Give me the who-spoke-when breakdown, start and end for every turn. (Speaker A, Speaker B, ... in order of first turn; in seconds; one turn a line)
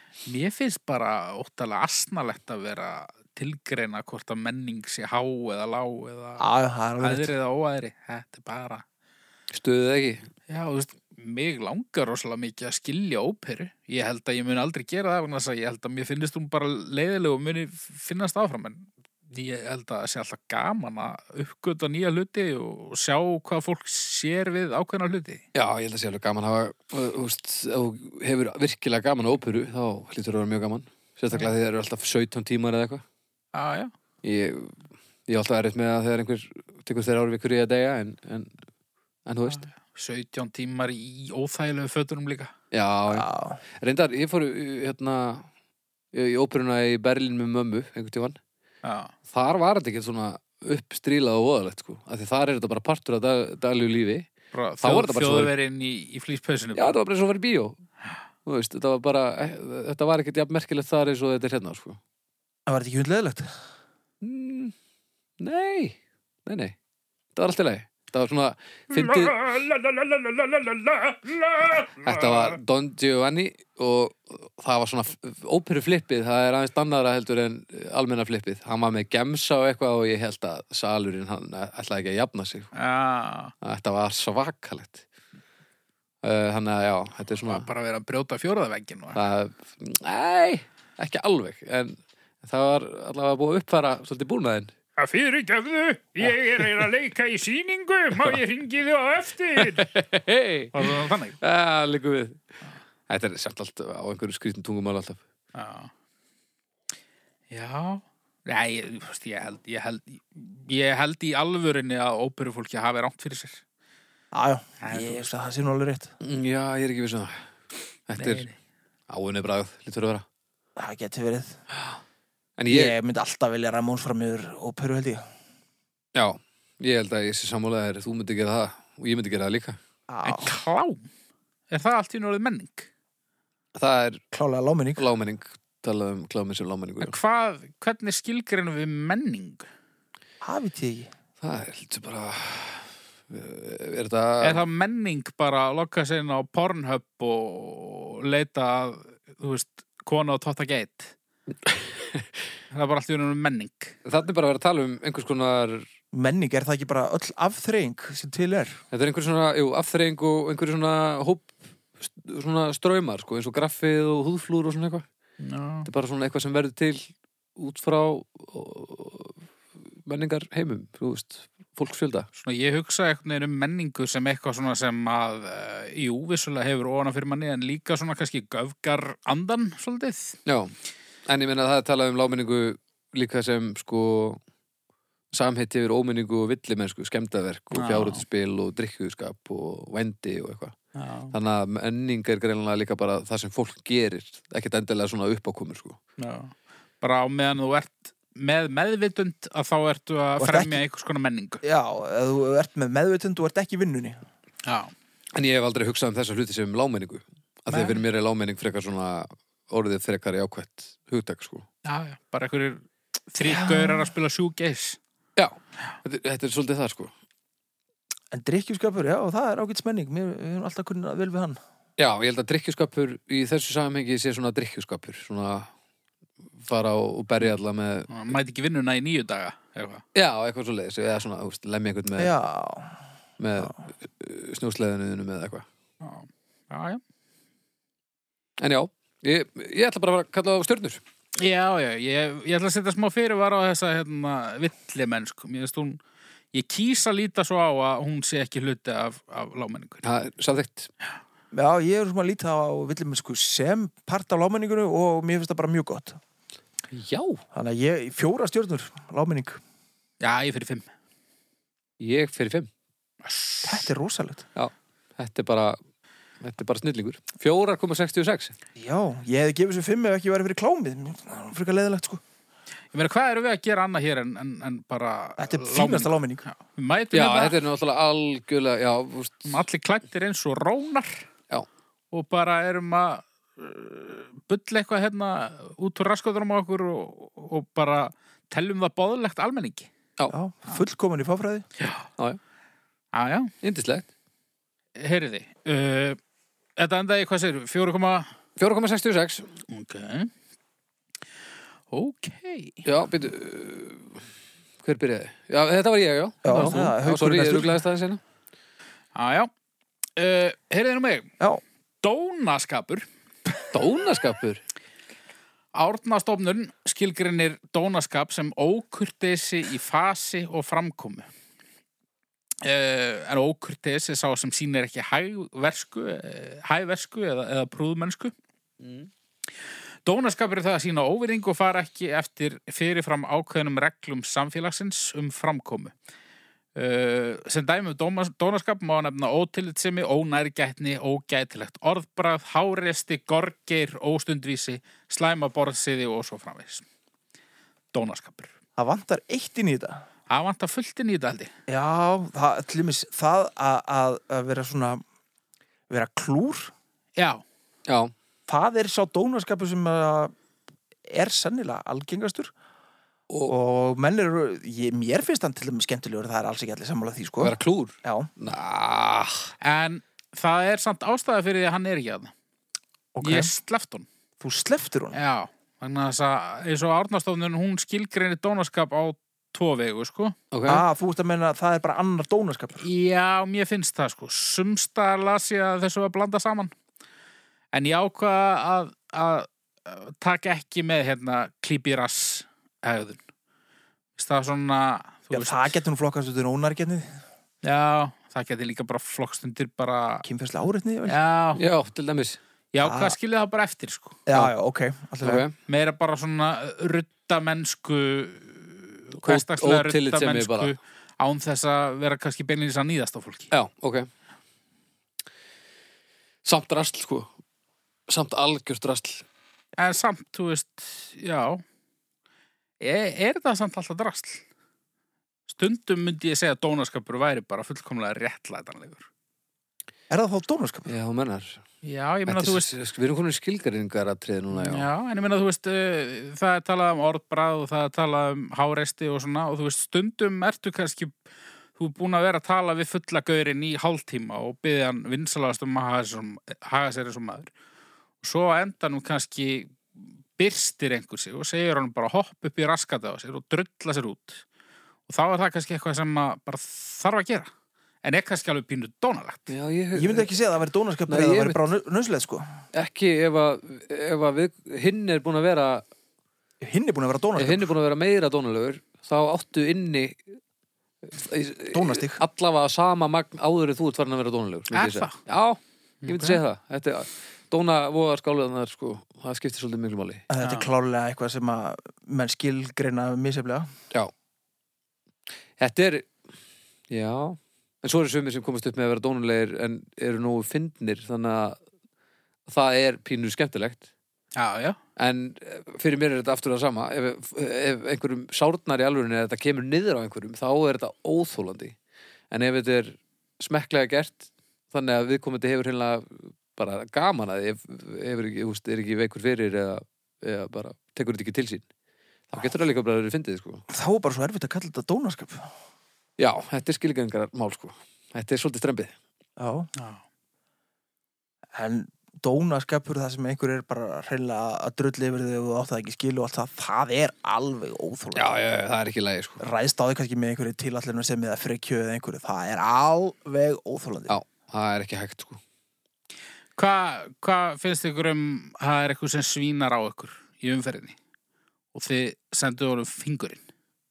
Speaker A: 0.3-6.5
Speaker B: 6.4-7.3
Speaker A: 7.0-8.8
Speaker C: 9.5-10.3
Speaker A: 10.5-25.4
Speaker C: 25.5-33.0
Speaker A: 33.5-33.9
Speaker C: 34.2-38.6
Speaker C: 39.3-39.7
Speaker A: 39.5-42.5
Speaker C: 42.7-45.5
Speaker B: 43.1-43.6
Speaker C: 46.1-48.4
Speaker A: 48.8-49.1
Speaker C: 49.3-54.3
Speaker A: 54.5-57.0
Speaker C: 54.8-55.5
Speaker C: 56.8-57.8
Speaker C: 58.5-62.0
Speaker B: 62.7-63.5
Speaker C: 64.2-64.8
Speaker C: 65.4-66.8
Speaker C: 67.3-69.4
Speaker A: 68.9-72.6
Speaker C: 72.0-82.7
Speaker A: 82.8-83.5
Speaker C: 83.6-85.0
Speaker C: 86.2-87.7
Speaker A: 87.4-89.2
Speaker C: 89.2-94.7
Speaker A: 95.0-99.9
Speaker C: 99.6-102.4
Speaker A: 100.7-101.4
Speaker C: 103.1-105.2
Speaker A: 105.5-105.9
Speaker A: 107.5-113.6
Speaker B: 114.3-116.1
Speaker A: 114.8-115.3
Speaker C: 116.2-117.5
Speaker C: 118.1-118.5
Speaker A: 118.2-118.5
Speaker C: 119.1-120.3
Speaker B: 120.8-121.6
Speaker C: 122.6-123.0
Speaker B: 122.7-125.2
Speaker C: 126.2-129.8
Speaker B: 130.1-130.6
Speaker A: 130.2-131.1
Speaker A: 131.7-132.9
Speaker C: 133.8-134.2
Speaker B: 134.3-135.0
Speaker C: 135.0-137.2
Speaker A: 137.0-139.7
Speaker B: 140.4-141.1
Speaker C: 141.4-144.6
Speaker A: 144.4-151.1
Speaker C: 151.7-152.3
Speaker A: 152.7-153.9
Speaker C: 154.1-155.9
Speaker B: 156.1-158.8
Speaker C: 158.9-165.1
Speaker A: 165.4-165.9
Speaker C: 165.8-169.4
Speaker C: 170.1-172.3
Speaker A: 172.4-180.4
Speaker C: 180.5-180.7
Speaker C: 181.3-184.4
Speaker C: 185.3-190.8
Speaker A: 187.7-188.2
Speaker A: 190.9-191.3
Speaker C: 191.3-196.0
Speaker A: 196.2-201.6
Speaker B: 200.4-200.8
Speaker B: 201.6-204.2
Speaker A: 204.6-204.9
Speaker C: 205.3-211.7
Speaker A: 207.7-208.0
Speaker A: 211.8-215.0
Speaker B: 213.4-214.1
Speaker C: 215.4-217.1
Speaker B: 218.3-221.6
Speaker C: 222.0-225.7
Speaker C: 226.6-228.1
Speaker A: 228.1-230.0
Speaker C: 230.1-232.3
Speaker B: 232.2-233.0
Speaker C: 233.4-235.7
Speaker A: 236.0-237.0
Speaker C: 238.6-241.0
Speaker A: 241.4-246.0
Speaker A: 246.5-250.0
Speaker C: 250.0-250.9
Speaker B: 251.5-256.2
Speaker C: 256.9-257.4
Speaker B: 257.5-259.6
Speaker A: 260.2-260.9
Speaker C: 262.0-262.7
Speaker A: 263.2-263.9
Speaker B: 263.6-264.5
Speaker C: 264.6-265.8
Speaker C: 266.4-268.6
Speaker B: 268.8-272.2
Speaker A: 272.9-277.6
Speaker B: 275.4-276.5
Speaker C: 277.1-279.6
Speaker A: 279.5-281.3
Speaker A: 282.1-289.9
Speaker B: 290.3-291.7
Speaker A: 291.8-292.1
Speaker A: 293.1-293.5
Speaker C: 293.6-294.1
Speaker A: 295.0-296.2
Speaker A: 296.8-298.3
Speaker C: 298.6-299.5
Speaker A: 299.7-300.3
Speaker A: 301.9-302.9
Speaker C: 302.9-304.2
Speaker C: 304.8-308.2
Speaker B: 306.4-307.8
Speaker A: 309.1-309.5
Speaker A: 310.2-311.3
Speaker A: 312.0-313.1
Speaker C: 313.7-314.6
Speaker A: 315.7-321.3
Speaker A: 322.6-328.3
Speaker A: 330.1-335.9
Speaker A: 336.8-346.9
Speaker A: 347.9-348.5
Speaker B: 348.8-350.0
Speaker A: 350.3-351.5
Speaker B: 351.7-355.0
Speaker B: 355.9-356.7
Speaker A: 357.2-357.4
Speaker C: 357.9-358.1
Speaker B: 358.5-360.3
Speaker B: 361.1-362.5
Speaker C: 363.3-363.6
Speaker B: 363.5-368.3
Speaker C: 367.4-369.5
Speaker A: 369.6-372.3
Speaker B: 373.1-373.5
Speaker A: 373.2-374.1
Speaker B: 374.4-375.2
Speaker A: 375.1-380.4
Speaker C: 380.5-380.8
Speaker B: 380.7-382.9
Speaker A: 382.8-386.7
Speaker A: 387.7-393.2
Speaker A: 394.2-395.8
Speaker B: 395.3-397.2
Speaker A: 397.6-400.2
Speaker B: 400.2-401.2
Speaker A: 401.1-401.6
Speaker C: 401.6-402.4
Speaker A: 402.7-404.2
Speaker B: 402.8-403.2
Speaker B: 404.3-405.4
Speaker C: 405.2-405.6
Speaker A: 405.7-413.5
Speaker C: 409.2-410.8
Speaker C: 413.5-414.1
Speaker C: 416.4-417.3
Speaker C: 418.1-419.2
Speaker A: 419.8-421.6
Speaker A: 422.8-424.4
Speaker A: 425.5-429.1
Speaker B: 430.1-430.9
Speaker C: 430.9-431.6
Speaker A: 431.8-432.7
Speaker C: 432.3-434.9
Speaker A: 434.5-441.1
Speaker A: 441.8-447.5
Speaker A: 448.2-449.8
Speaker A: 450.4-454.4
Speaker A: 455.1-457.5
Speaker A: 458.0-459.5
Speaker C: 459.5-460.3
Speaker B: 459.9-462.5
Speaker C: 461.1-461.6
Speaker C: 462.7-465.8
Speaker B: 466.6-467.7
Speaker C: 467.4-470.4
Speaker C: 471.1-480.2
Speaker B: 471.7-472.2
Speaker A: 474.7-475.2
Speaker A: 476.0-476.4
Speaker B: 480.3-483.7
Speaker A: 480.4-480.7
Speaker C: 485.6-486.2
Speaker C: 486.9-491.6
Speaker C: 492.5-493.9
Speaker A: 494.4-494.8
Speaker C: 495.0-501.8
Speaker C: 502.3-511.7
Speaker C: 512.3-513.6
Speaker B: 513.7-515.5
Speaker C: 516.2-519.0
Speaker B: 519.4-519.7
Speaker A: 519.8-520.0
Speaker B: 521.5-528.4
Speaker C: 528.1-529.4
Speaker B: 529.4-534.1
Speaker C: 534.1-535.4
Speaker A: 536.6-541.0
Speaker A: 541.7-543.4